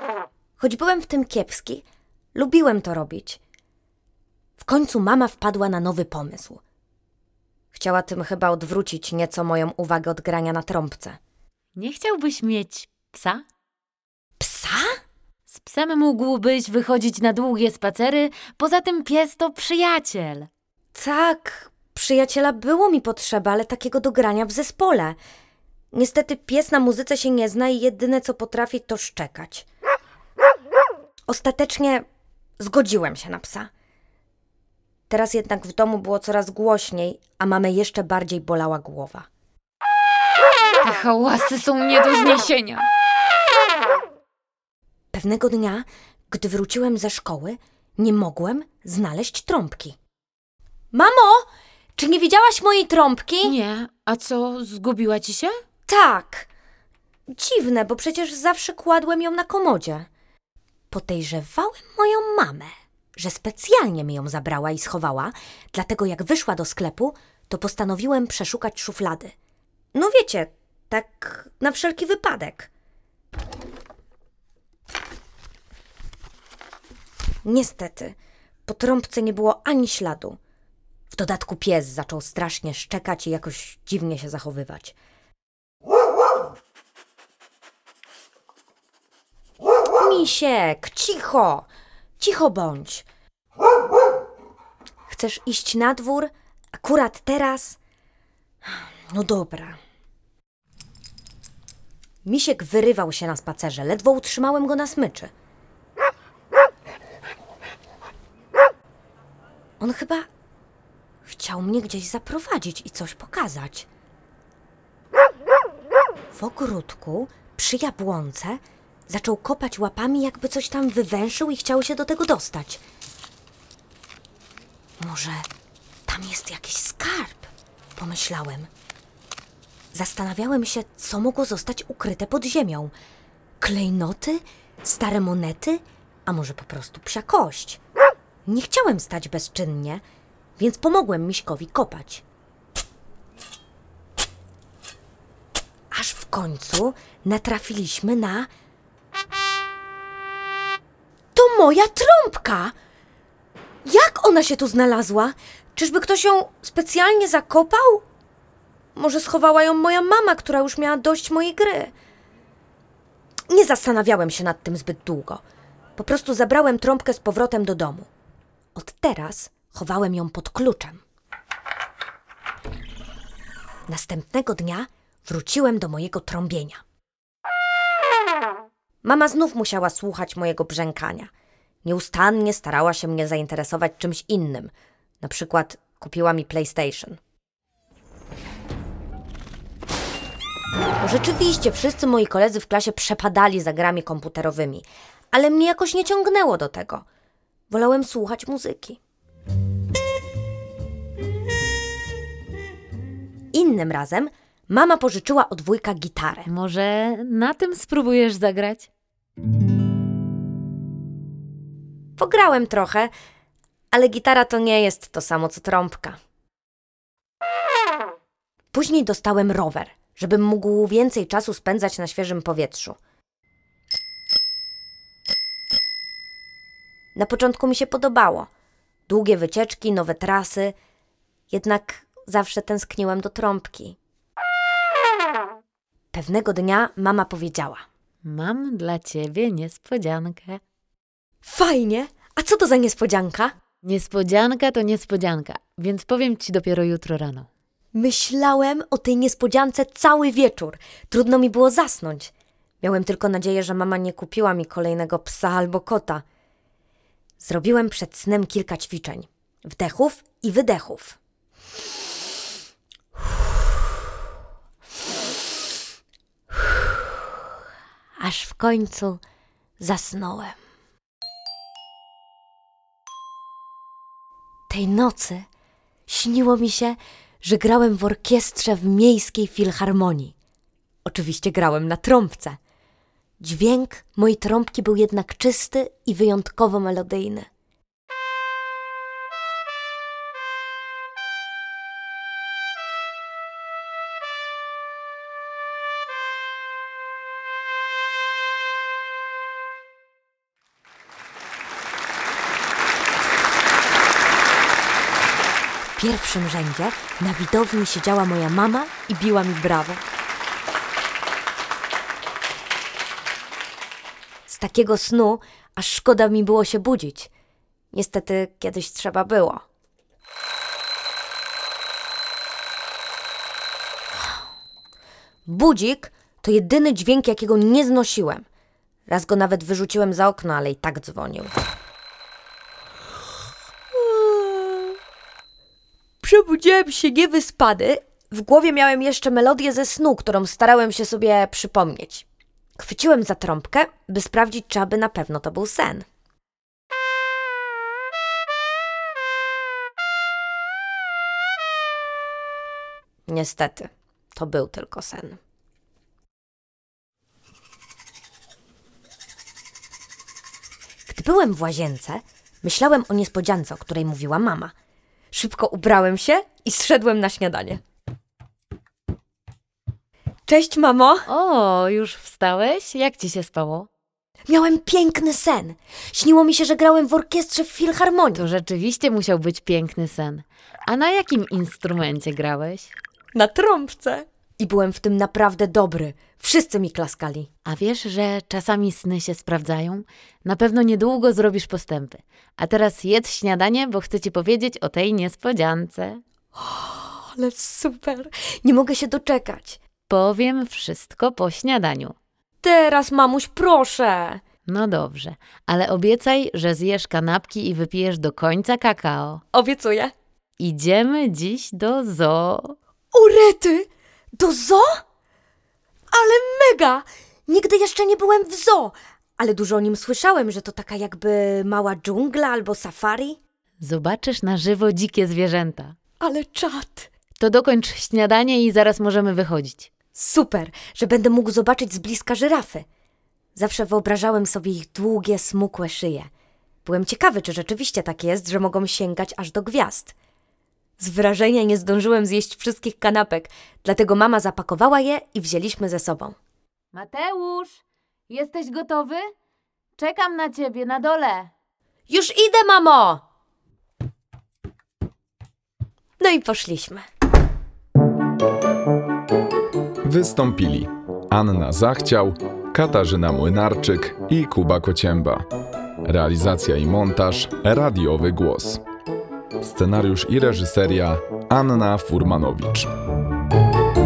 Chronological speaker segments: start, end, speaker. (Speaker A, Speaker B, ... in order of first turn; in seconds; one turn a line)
Speaker A: 0.6-3.4
Speaker A: 4.6-6.6
Speaker A: 7.7-11.2
Speaker B: 11.8-13.4
Speaker A: 14.4-15.0
Speaker B: 15.5-20.5
Speaker A: 20.9-25.2
Speaker A: 25.9-29.7
Speaker A: 31.3-32.0
Speaker A: 32.6-33.7
Speaker A: 35.1-39.3
Speaker B: 40.8-42.9
Speaker A: 45.1-50.0
Speaker A: 50.9-53.5
Speaker B: 53.4-55.6
Speaker A: 55.9-56.5
Speaker A: 57.3-60.1
Speaker A: 60.9-69.3
Speaker A: 69.9-72.7
Speaker A: 77.5-78.2
Speaker A: 78.7-80.4
Speaker A: 81.1-85.0
Speaker A: 90.0-91.7
Speaker A: 92.2-93.1
Speaker A: 95.1-97.8
Speaker A: 98.6-99.8
Speaker A: 102.2-105.3
Speaker A: 109.8-110.3
Speaker A: 111.3-113.9
Speaker A: 116.3-122.8
Speaker A: 125.0-125.5
Speaker A: 126.1-128.7
Speaker A: 129.9-132.9
Speaker A: 133.6-137.8
Speaker A: 138.5-140.0
Speaker A: 140.6-142.2
Speaker A: 145.9-148.5
Speaker A: 151.3-152.8
Speaker A: 153.8-158.1
Speaker A: 158.9-161.9
Speaker A: 163.5-165.4
Speaker A: 166.0-168.1
Speaker A: 168.8-171.0
Speaker A: 173.9-176.8
Speaker A: 179.0-181.3
Speaker A: 181.8-187.2
Speaker A: 191.0-197.1
Speaker A: 197.7-199.0
Speaker A: 203.5-206.5
Speaker B: 206.5-208.9
Speaker A: 212.2-213.1
Speaker A: 213.9-216.2
Speaker A: 218.7-223.0
Speaker A: 227.2-228.5
Speaker A: 229.1-230.8
Speaker A: 231.5-234.0
Speaker A: 236.1-237.8
Speaker B: 238.2-240.6
Speaker A: 241.4-243.6
Speaker B: 243.8-247.5
Speaker A: 247.9-256.2
Speaker A: 257.4-261.2
Speaker A: 268.2-269.2
Speaker A: 269.8-270.6
Speaker A: 274.7-275.5
Speaker A: 276.1-280.3
Speaker A: 281.1-282.6
Speaker A: 283.4-287.5
Speaker A: 306.0-310.0
Speaker A: 314.5-317.3
Speaker A: 317.9-319.6
Speaker A: 325.5-328.4
Speaker A: 329.1-331.5
Speaker A: 333.9-335.0
Speaker A: 336.2-342.3
Speaker A: 342.8-346.1
Speaker A: 353.3-355.4
Speaker A: 361.1-364.7
Speaker A: 365.3-367.8
Speaker A: 370.5-371.3
Speaker B: 371.3-373.9
Speaker A: 374.5-378.4
Speaker B: 378.3-382.9
Speaker A: 383.4-387.5
Speaker B: 387.6-396.2
Speaker A: 396.6-399.8
Speaker B: 400.1-402.1
Speaker A: 402.6-404.4
Speaker B: 404.7-409.4
Speaker A: 409.5-410.1
Speaker B: 410.6-412.8
Speaker A: 413.1-415.0
Speaker A: 416.1-423.4
Speaker B: 423.8-425.9
Speaker A: 426.2-427.1
Speaker B: 427.4-429.9
Speaker A: 430.1-432.9
Speaker A: 433.6-436.3
Speaker A: 436.9-440.1
Speaker A: 441.0-446.4
Speaker B: 446.9-449.3
Speaker B: 450.0-451.5
Speaker A: 452.1-453.2
Speaker A: 456.2-457.1
Speaker C: 460.0-465.4
Speaker C: 466.1-468.8
Speaker C: 469.6-472.9